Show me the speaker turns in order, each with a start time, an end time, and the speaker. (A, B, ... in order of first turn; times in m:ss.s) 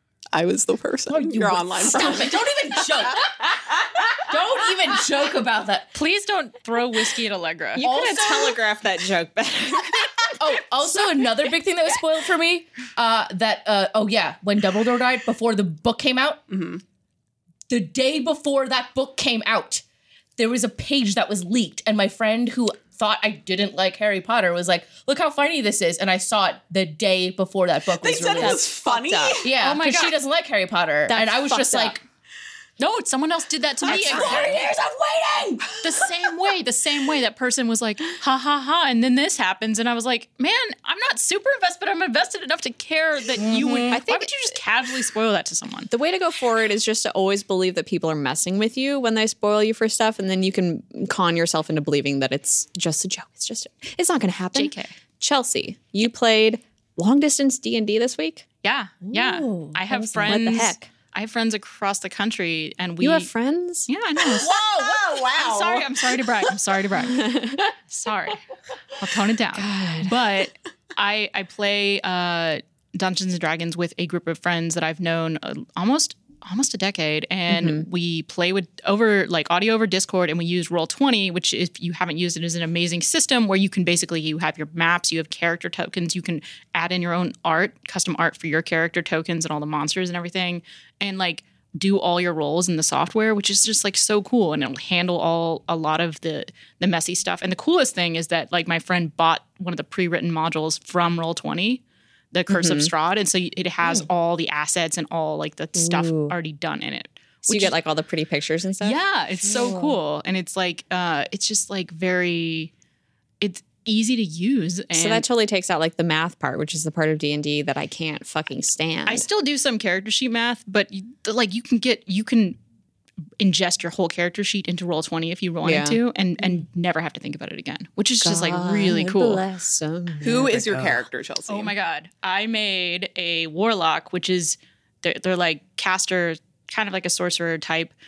0:00.3-0:04.0 A
0:01.1-0:03.5 B
0:04.1-0:05.9 B
0:06.0-0:07.9 C
0:07.8-0:11.3 D
0:07.8-0:08.6 B
0:10.3-0:16.4 B
0:16.5-0:16.8 A
0:17.7-0:19.8 B
0:20.4-0:28.6 B
0:28.0-0:29.6 A
0:28.4-0:29.4 D
0:29.4-0:32.0 B
0:29.6-0:30.1 C
0:31.1-0:32.0 D
0:32.8-0:34.6 C
0:33.8-0:34.6 A
0:33.8-0:35.8 B
0:35.8-0:45.9 C
0:43.4-0:44.0 B
0:43.9-0:44.3 D
0:45.9-0:58.5 D
0:54.6-0:54.9 C
0:58.6-1:03.3 C
0:59.1-1:00.7 B
1:00.2-1:00.9 D
1:03.0-1:03.9 D
1:03.9-1:04.6 C
1:04.2-1:06.5 A
1:04.4-1:05.2 B
1:05.2-1:08.4 C
1:07.1-1:07.7 D
1:09.0-1:47.7 C
1:09.5-1:10.2 D
1:17.5-1:17.9 D
1:42.5-1:42.9 D
1:45.8-1:46.4 D
1:47.5-1:49.0 D
1:48.8-1:52.7 C
1:49.5-1:50.0 B
1:53.4-1:55.2 C
1:54.9-1:59.3 D
1:59.1-2:02.6 C
2:03.4-2:09.4 C
2:05.6-2:06.0 D
2:08.2-2:10.9 D
2:10.2-2:11.7 A
2:10.6-2:10.9 B
2:11.5-2:17.9 C